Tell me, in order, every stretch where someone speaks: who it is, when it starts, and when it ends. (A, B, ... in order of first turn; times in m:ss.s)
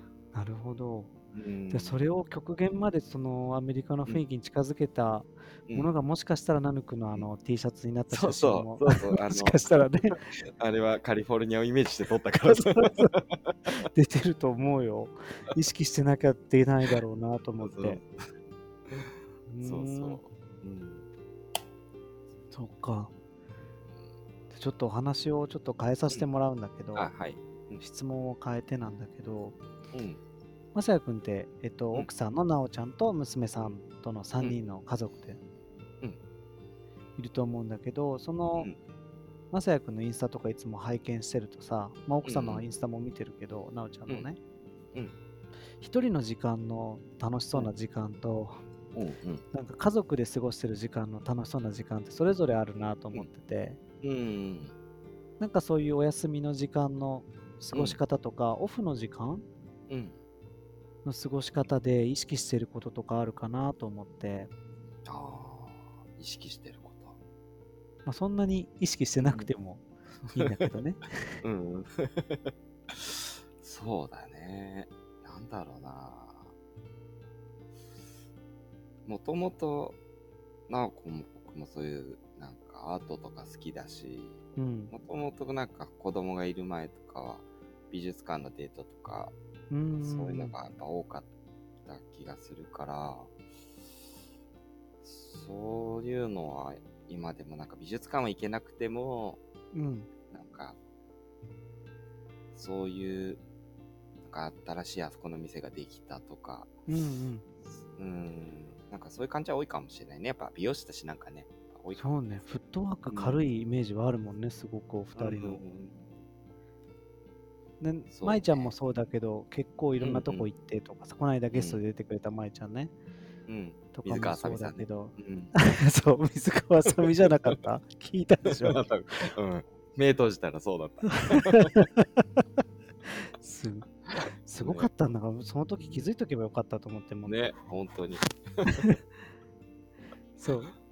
0:00.3-0:01.1 A
0:01.3-0:02.0 B
0:01.7-0:10.2 A
0:08.1-0:13.5 B
0:12.5-0:13.1 A
0:13.7-0:18.0 A
0:17.6-0:18.1 B
0:18.9-0:21.0 B
0:19.5-0:20.2 A
0:22.5-0:23.1 A
0:24.5-0:27.1 A
0:26.9-0:27.8 B
0:27.8-0:29.6 A
0:29.9-0:30.2 B
0:30.7-0:35.4 A
0:37.2-0:38.7 A
0:39.5-0:44.4 A
0:42.2-0:42.6 B
0:45.8-0:48.6 A
0:48.9-0:49.4 B
0:49.5-0:53.8 A
0:54.0-0:54.7 B
0:55.4-0:59.4 A
0:57.7-0:58.0 B
0:59.9-1:00.2 B
1:01.0-1:04.5 A
1:05.0-1:07.2 B
1:08.0-1:11.4 A
1:09.2-1:09.5 B
1:10.4-1:10.7 B
1:11.4-1:16.5 B
1:19.0-1:20.0 B
1:20.7-1:29.3 B
1:24.6-1:24.9 A
1:29.7-1:30.5 A
1:30.0-1:31.2 B
1:31.8-1:33.3 B
1:35.0-1:39.4 B
1:39.7-1:40.1 A
1:40.3-1:40.8 B
1:42.5-1:43.4 B
1:44.2-1:46.7 B
1:46.9-1:47.4 A
1:47.9-1:52.6 B
1:52.0-1:55.6 A
1:53.1-1:53.4 B
1:55.1-1:56.0 B
1:57.8-2:02.9 A
1:58.1-1:58.7 B
2:00.0-2:00.5 B
2:01.5-2:01.8 B
2:03.5-2:05.5 B
2:03.9-2:08.8 A
2:08.4-2:11.8 B
2:11.0-2:12.2 A
2:13.4-2:13.9 A
2:14.4-2:17.4 A
2:14.6-2:14.9 B
2:15.8-2:16.1 B
2:17.2-2:18.9 B
2:18.6-2:18.9 A
2:20.4-2:20.7 A